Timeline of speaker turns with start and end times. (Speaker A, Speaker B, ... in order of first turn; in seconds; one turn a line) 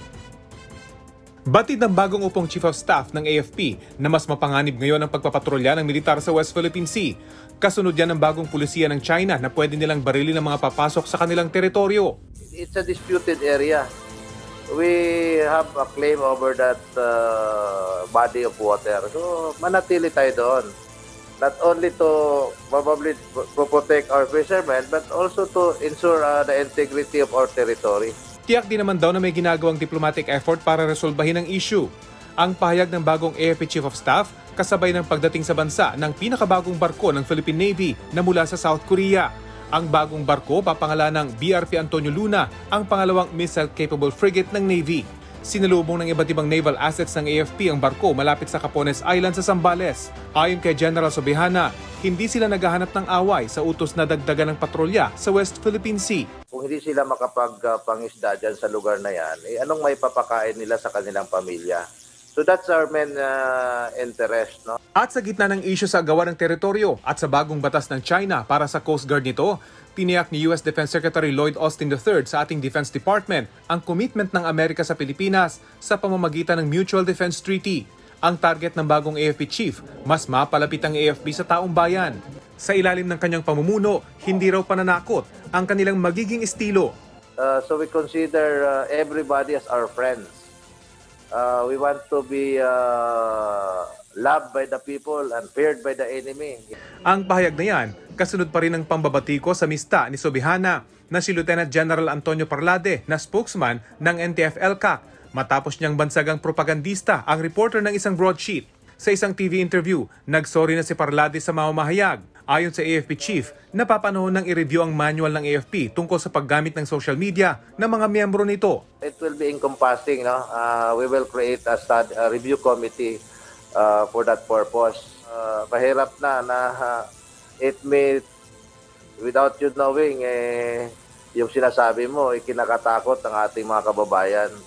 Speaker A: 1.5-12.1
Speaker B: 12.5-13.8
Speaker B: 14.7-20.7
Speaker B: 21.4-28.1
Speaker A: 28.5-31.9
Speaker A: 32.4-56.3
Speaker B: 56.5-64.8
Speaker A: 65.0-86.9
Speaker B: 87.4-90.5
Speaker B: 91.3-96.7
Speaker A: 97.1-118.8
Speaker B: 119.0-123.2
Speaker B: 123.8-127.0
Speaker B: 127.6-128.2
Speaker B: 129.2-134.5